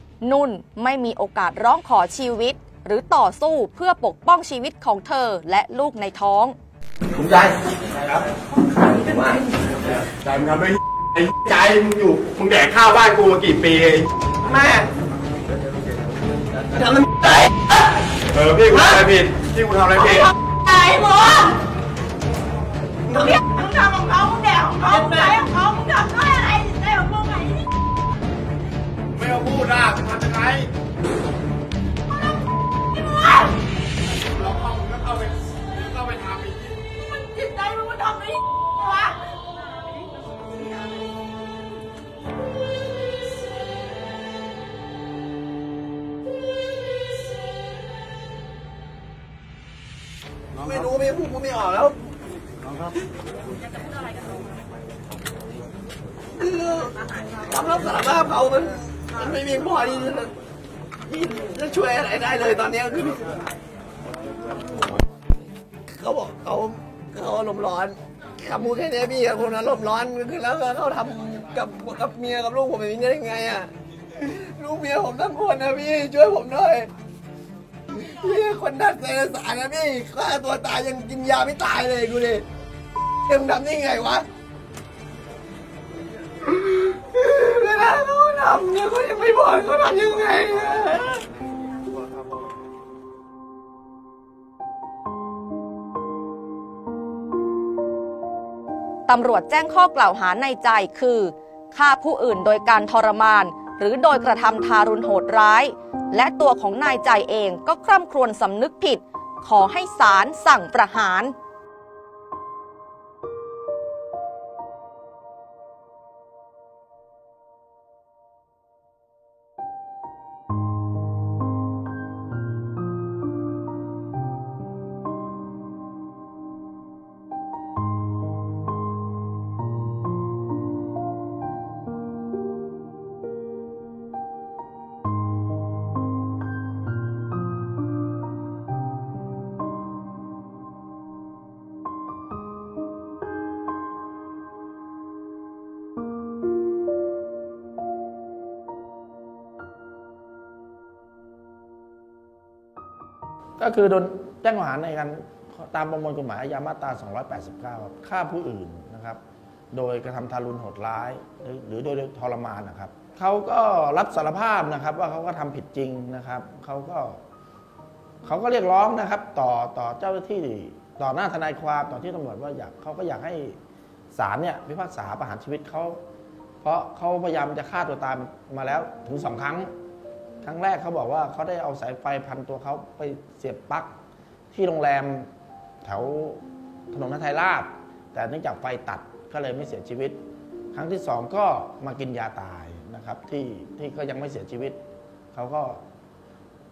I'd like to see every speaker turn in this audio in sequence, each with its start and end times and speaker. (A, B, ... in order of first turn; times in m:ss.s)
0:00.2-0:06.6 A
0:07.2-0:07.5 B
0:10.1-0:14.6 B
0:16.8-0:17.4 B
0:18.3-0:20.7 B
0:20.7-0:21.4 C
0:23.2-0:27.7 C
0:29.2-0:30.6 D
0:29.3-0:30.5 B
0:32.9-0:33.6 C
0:34.5-0:35.1 D
0:34.8-0:36.9 B
0:36.0-0:36.5 D
0:37.0-0:39.3 C
0:50.5-0:52.0 E
0:56.4-1:00.3 E
1:01.1-1:03.3 E
1:05.9-1:16.9 E
1:17.9-1:22.4 E
1:23.2-1:24.2 E
1:26.4-1:31.2 E
1:39.1-1:51.3 A
2:33.6-2:39.2 D
2:39.7-2:47.2 D
2:48.2-2:53.6 D
2:54.1-2:56.0 D
2:56.6-2:59.7 D
3:00.4-3:03.9 D
3:04.5-3:05.3 D
3:05.8-3:10.2 D
3:10.7-3:14.8 D
3:15.3-3:15.8 D